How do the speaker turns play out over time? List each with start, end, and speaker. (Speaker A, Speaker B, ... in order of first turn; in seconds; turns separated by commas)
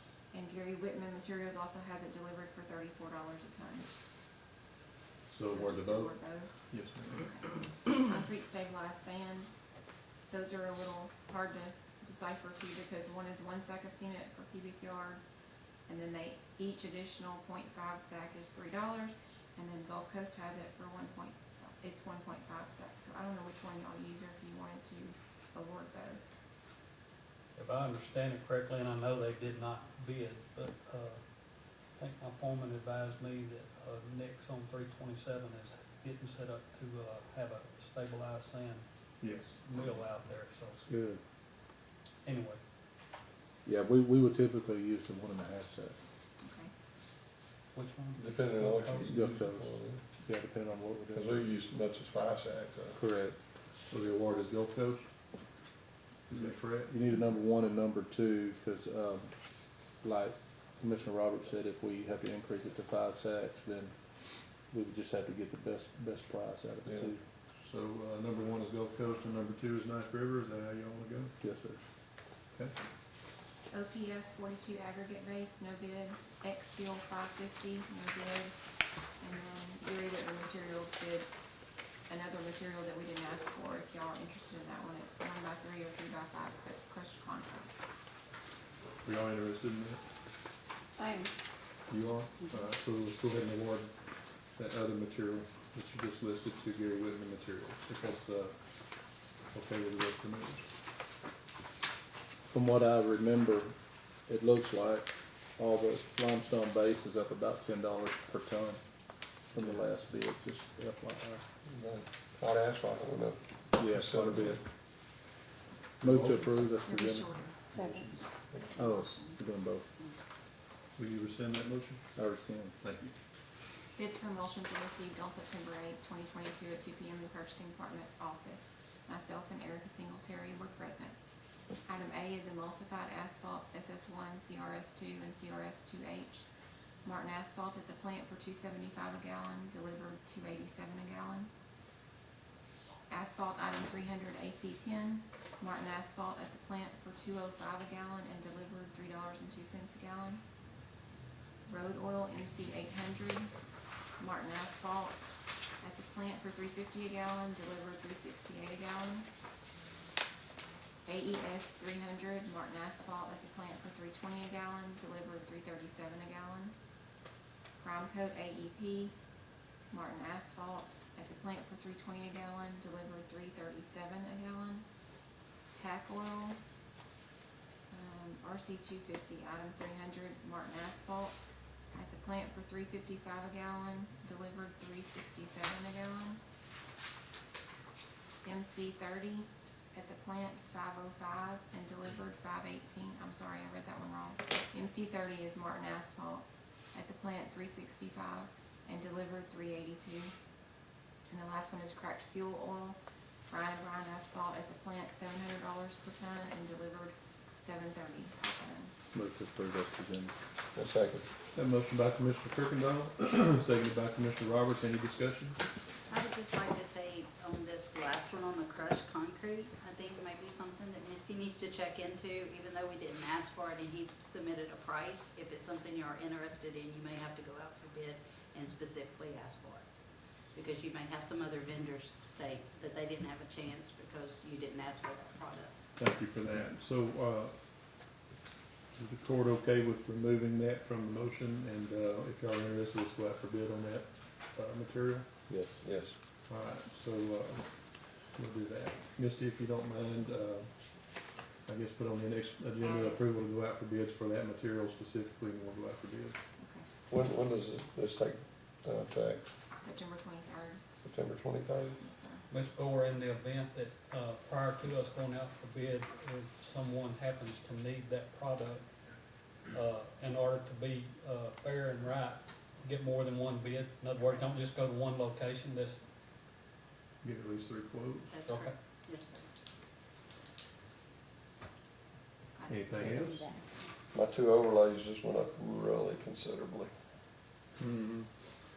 Speaker A: 0.3-3.9, Speaker B: 5.3-7.3, Speaker A: 5.5-9.5, Speaker A: 10.3-15.2, Speaker A: 15.9-26.4, Speaker C: 27.6-38.9, Speaker B: 39.2-39.7, Speaker C: 39.7-40.8, Speaker D: 40.9-41.2, Speaker C: 42.2-42.6, Speaker D: 43.6-46.0, Speaker A: 46.4-46.7, Speaker C: 47.8-49.2, Speaker E: 48.2-50.0, Speaker D: 49.0-51.4, Speaker E: 51.1-53.0, Speaker D: 52.9-53.4, Speaker B: 53.9-55.1, Speaker B: 56.3-56.9, Speaker D: 56.9-59.5, Speaker D: 60.0-64.0, Speaker D: 64.7-67.2, Speaker E: 66.9-67.1, Speaker B: 67.6-71.3, Speaker D: 71.4-71.8, Speaker A: 73.7-78.6, Speaker A: 79.2-87.7, Speaker B: 89.0-90.0, Speaker B: 91.9-100.7, Speaker D: 102.5-103.8, Speaker D: 104.3-108.8, Speaker D: 109.5-111.4, Speaker E: 111.7-114.6, Speaker D: 113.8-114.6, Speaker D: 116.0-117.4, Speaker A: 116.8-117.9, Speaker A: 118.7-119.4, Speaker D: 118.8-119.9, Speaker B: 121.0-122.1, Speaker D: 122.2-122.8, Speaker B: 122.8-123.1, Speaker A: 124.0-131.2, Speaker A: 131.8-136.5, Speaker A: 137.0-141.5, Speaker A: 143.1-150.4, Speaker A: 151.7-153.5, Speaker A: 154.2-155.2, Speaker A: 155.8-159.3, Speaker A: 161.1-166.8, Speaker A: 167.8-169.2, Speaker A: 169.9-174.9, Speaker A: 175.7-176.6, Speaker A: 177.9-186.4, Speaker A: 188.4-200.3, Speaker A: 201.3-208.9, Speaker D: 209.1-210.4, Speaker E: 210.7-211.3, Speaker B: 211.5-215.6, Speaker F: 216.1-229.8, Speaker F: 230.5-235.7, Speaker B: 236.0-238.1, Speaker B: 238.9-245.5, Speaker D: 245.5-245.8, Speaker E: 245.7-246.2, Speaker B: 246.4-256.4, Speaker A: 252.8-253.2, Speaker A: 256.6-256.9, Speaker E: 257.1-259.5, Speaker A: 259.8-260.8, Speaker E: 261.0-262.0, Speaker A: 262.0-262.4, Speaker C: 262.5-276.0, Speaker B: 277.2-278.5, Speaker F: 278.3-279.4, Speaker C: 278.5-278.8, Speaker A: 282.6-283.8, Speaker B: 282.7-283.5, Speaker E: 284.1-286.9, Speaker B: 287.8-288.3